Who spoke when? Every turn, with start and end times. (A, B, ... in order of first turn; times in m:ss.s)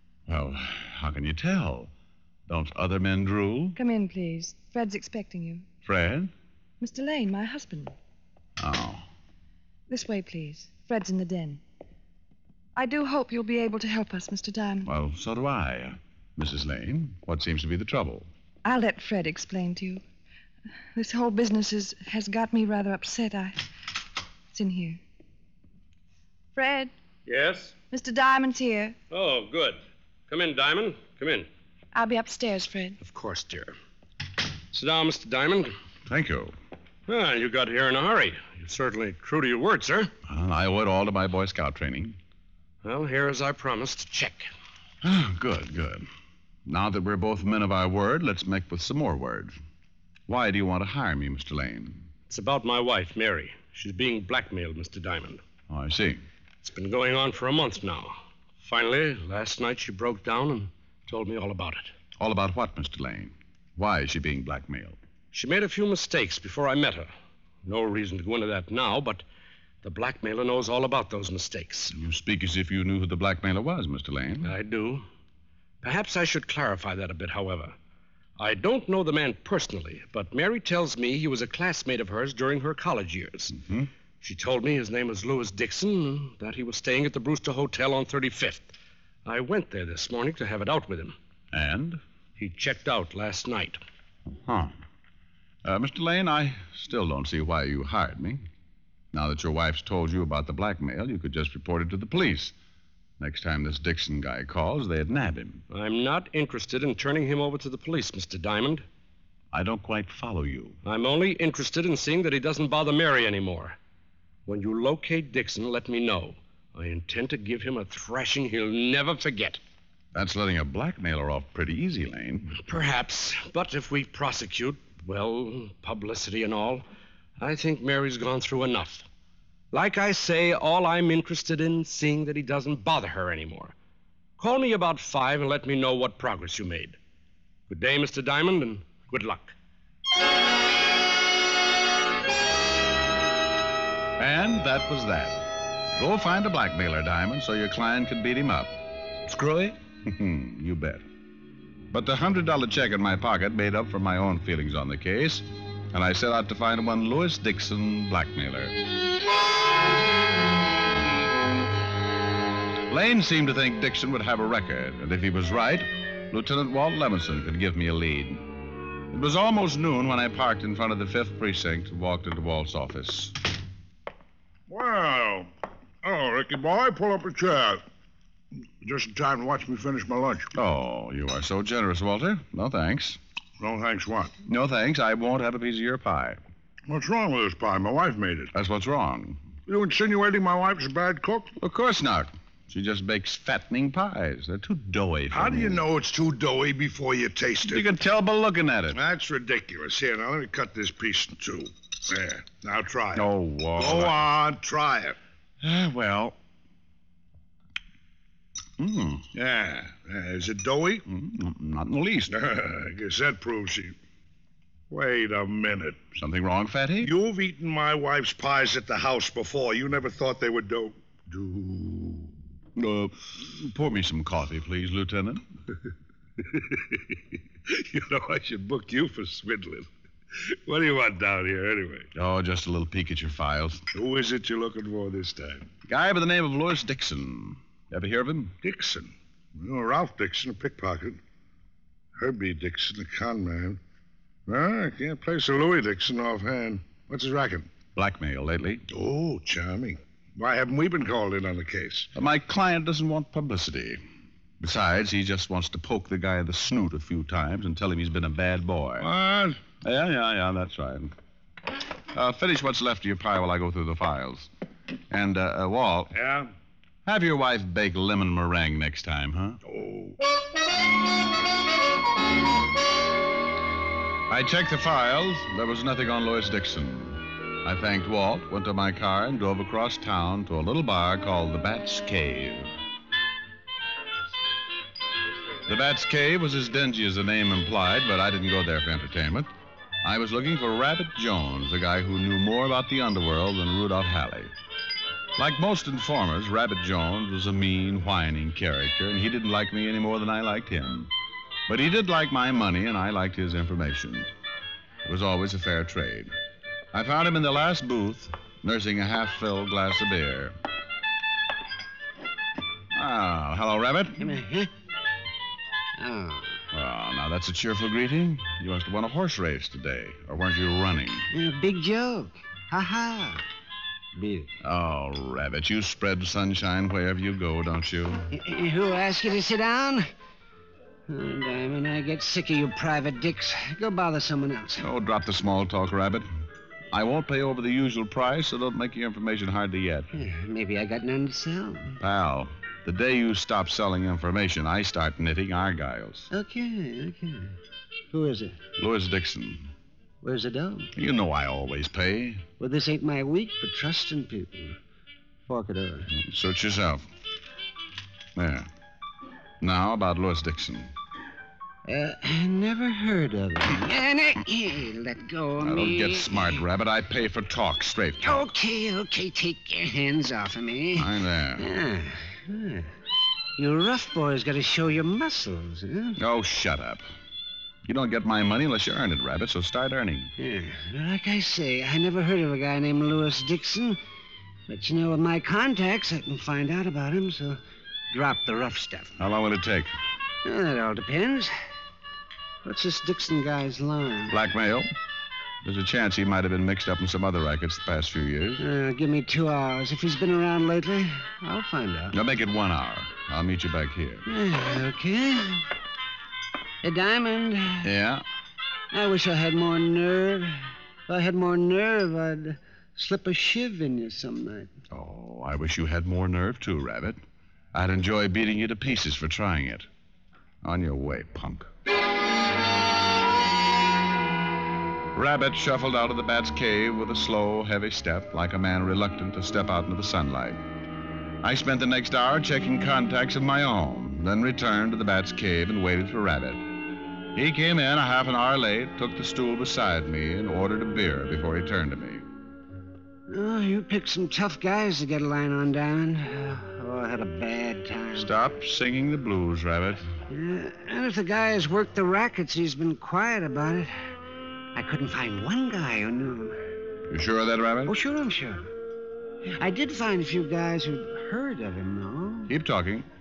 0:00.3-0:01.9 A
0:02.5-0:03.8 A
0:03.8-0:05.6 B
0:05.8-0:06.3 A
0:06.8-0:07.9 B
0:08.6-0:09.0 A
0:09.9-0:11.6 B
0:12.8-0:14.9 B
0:14.8-0:18.2 A
0:18.6-0:20.0 B
0:20.9-0:23.6 B
0:24.5-0:25.0 B
0:26.5-0:26.9 B
0:27.2-0:27.7 C
0:27.9-0:29.0 B
0:29.1-0:31.5 C
0:31.9-0:33.0 B
0:33.0-0:33.7 C
0:34.7-0:35.7 C
0:36.1-0:36.5 A
0:37.1-0:40.1 C
0:40.3-0:42.2 A
0:42.8-0:44.5 C
0:45.0-0:46.0 A
0:46.6-0:49.6 A
0:50.3-0:52.0 A
0:52.3-0:55.4 C
0:55.7-0:56.2 A
0:56.6-1:01.9 C
1:02.2-1:05.0 A
1:05.3-1:07.1 C
1:07.6-1:09.2 C
1:09.8-1:11.9 C
1:11.9-1:14.5 A
1:14.4-1:15.0 C
1:15.8-1:17.7 C
1:18.4-1:23.5 C
1:23.5-1:23.9 A
1:24.2-1:28.7 C
1:29.2-1:31.2 C
1:31.5-1:32.0 A
1:32.4-1:33.8 C
1:35.6-1:38.4 A
1:39.1-1:42.5 A
1:43.2-1:45.6 A
1:45.7-1:48.8 C
1:49.5-1:50.8 A
1:50.8-1:53.8 C
1:54.5-1:59.6 C
2:00.1-2:02.6 A
2:02.6-2:06.8 C
2:07.4-2:09.0 C
2:09.7-2:13.7 C
2:14.4-2:17.0 C
2:17.7-2:19.6 C
2:24.2-2:25.4 A
2:26.0-2:28.7 A
2:29.2-2:31.0 A
2:31.9-2:38.8 A
2:42.9-2:48.4 A
2:49.1-2:53.3 A
2:54.7-2:55.5 D
2:56.0-2:57.8 D
2:58.8-3:00.5 D
3:00.5-3:03.2 A
3:03.6-3:04.3 D
3:04.5-3:06.4 A
3:06.9-3:08.5 D
3:08.5-3:09.4 A
3:09.6-3:11.5 D
3:11.6-3:15.8 A
3:15.3-3:17.9 D
3:17.6-3:19.0 A
3:18.9-3:25.2 D
3:23.1-3:24.2 A
3:25.6-3:26.4 A
3:28.8-3:29.2 A
3:29.3-3:31.0 D
3:31.1-3:32.3 A
3:32.3-3:33.9 D
3:34.9-3:36.0 D
3:36.1-3:37.1 A
3:37.0-3:42.3 D
3:42.8-3:45.4 A
3:46.4-3:49.9 D
3:50.4-3:52.1 D
3:52.1-3:53.8 A
3:53.9-3:55.7 D
3:55.9-3:58.5 A
3:58.6-4:01.2 D
4:02.2-4:03.8 D
4:04.5-4:07.7 D
4:08.0-4:08.8 A
4:08.9-4:12.1 D
4:12.1-4:14.0 A
4:14.6-4:19.1 A
4:19.0-4:19.6 D
4:19.8-4:21.1 A
4:22.1-4:24.5 A
4:25.1-4:26.1 A
4:26.1-4:26.5 D
4:27.0-4:29.6 A
4:29.6-4:30.2 D
4:34.3-4:42.7 A
4:45.7-4:49.5 A
4:50.0-4:54.5 A
4:55.4-5:01.1 A
5:01.7-5:04.3 A
5:05.0-5:06.3 A
5:06.9-5:10.5 A
5:12.9-5:14.2 A
5:14.2-5:14.7 E
5:16.0-5:16.6 E
5:16.7-5:21.3 A
5:21.3-5:23.4 E
5:24.2-5:24.5 E
5:24.6-5:28.2 A
5:28.3-5:30.1 E
5:31.1-5:34.8 E
5:34.8-5:36.3 A
5:36.9-5:40.1 A
5:40.1-5:42.0 E
5:42.0-5:46.3 A
5:46.3-5:47.6 E
5:48.1-5:48.6 E
5:48.8-5:49.7 A
5:50.2-5:50.9 E
5:51.0-5:52.4 A
5:52.6-5:54.8 E
5:55.5-5:56.1 E
5:56.2-5:57.0 A
5:58.4-5:58.7 A
5:59.6-6:00.9 A
6:01.8-6:06.6 E
6:05.6-6:08.4 A
6:08.2-6:12.9 E
6:11.0-6:11.6 A
6:13.6-6:16.2 E
6:16.2-6:17.0 A
6:17.8-6:20.3 A
6:20.4-6:24.0 E
6:24.7-6:27.6 E
6:28.1-6:29.2 E
6:29.2-6:29.9 A
6:30.4-6:31.5 E
6:32.6-6:34.4 E
6:34.3-6:34.9 A
6:35.6-6:38.6 A
6:38.6-6:42.1 E
6:42.1-6:44.2 A
6:44.3-6:45.6 E
6:46.8-6:47.9 E
6:47.8-6:48.2 A
6:48.9-6:54.7 E
6:54.9-6:57.2 A
6:57.7-6:59.9 A
7:00.6-7:01.7 A
7:05.1-7:10.6 A
7:11.4-7:16.6 A
7:17.3-7:22.2 A
7:23.3-7:28.3 E
7:28.2-7:30.0 A
7:30.3-7:34.1 E
7:34.7-7:36.6 E
7:37.1-7:37.9 A
7:37.8-7:38.7 E
7:39.4-7:42.5 E
7:42.5-7:43.0 A